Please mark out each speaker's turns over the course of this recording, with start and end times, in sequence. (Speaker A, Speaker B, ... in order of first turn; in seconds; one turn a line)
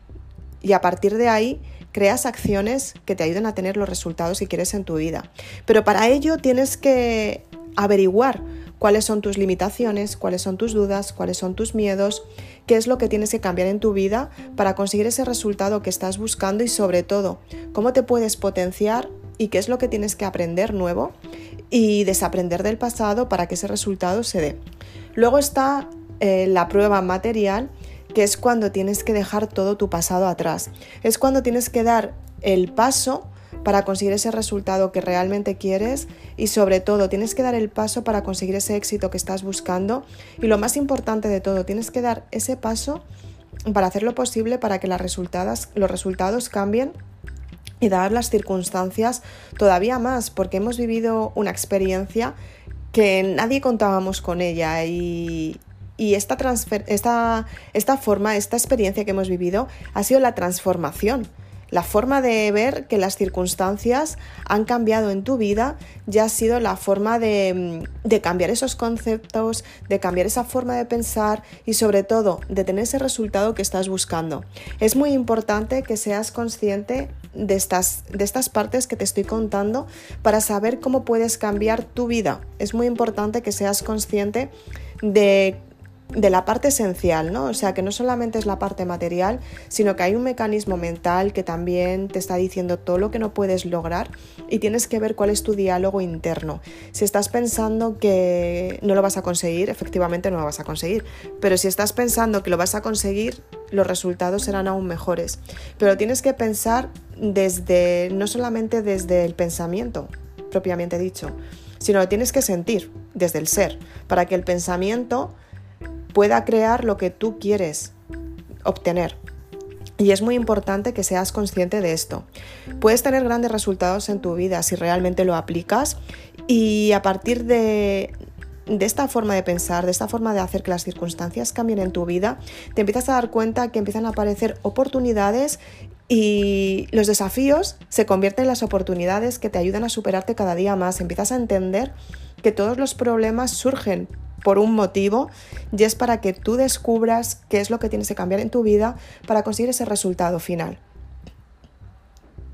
Speaker A: 0.6-21.1
Speaker A: 21.7-24.6
Speaker A: 25.1-43.0
Speaker A: 43.7-46.9
Speaker A: 47.8-52.4
Speaker A: 52.9-85.6
Speaker A: 86.1-115.3
Speaker A: 116.1-117.9
Speaker A: 118.7-119.2
Speaker A: 120.0-122.3
Speaker A: 122.8-126.0
Speaker A: 126.5-128.1
Speaker A: 128.7-150.8